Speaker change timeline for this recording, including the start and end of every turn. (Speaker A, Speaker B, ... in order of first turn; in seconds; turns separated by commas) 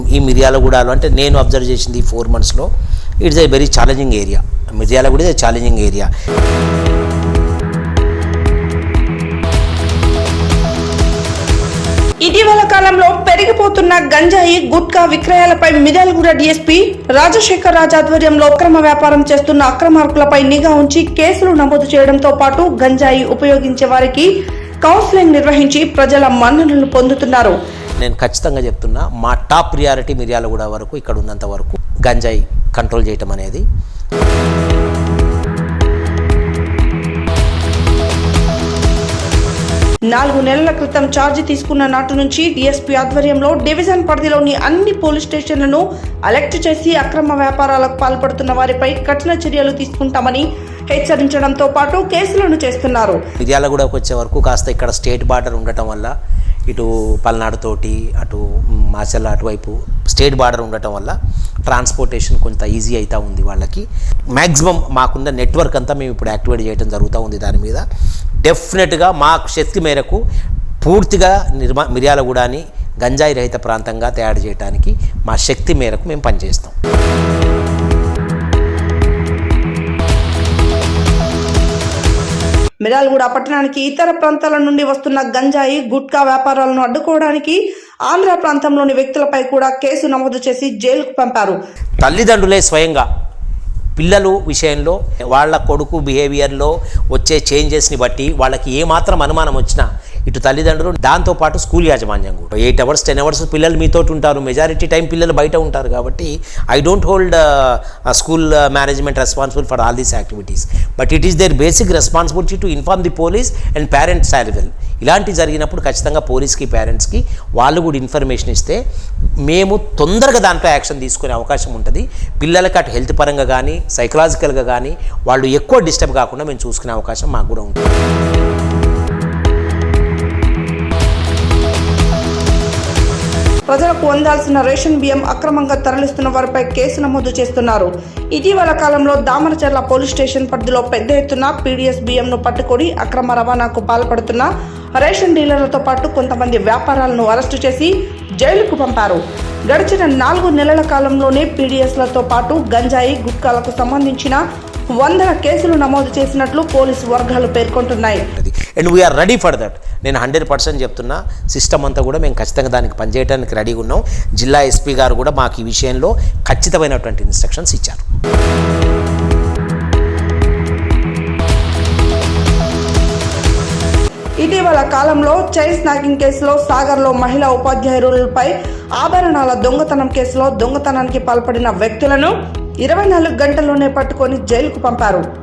Speaker A: 0.1-2.7, Speaker A: 3.2-6.1, Speaker B: 12.2-24.3, Speaker B: 24.8-27.6, Speaker A: 28.0-33.6, Speaker B: 40.1-53.2, Speaker A: 53.4-56.1, Speaker A: 56.7-61.1, Speaker A: 61.6-67.8, Speaker A: 68.4-70.2, Speaker A: 70.8-76.7, Speaker B: 82.8-91.6, Speaker A: 92.0-93.1, Speaker A: 94.0-118.8, Speaker A: 119.5-127.9, Speaker B: 133.7-154.4, Speaker B: 154.9-158.3, Speaker A: 158.3-168.0, Speaker B: 174.4-185.2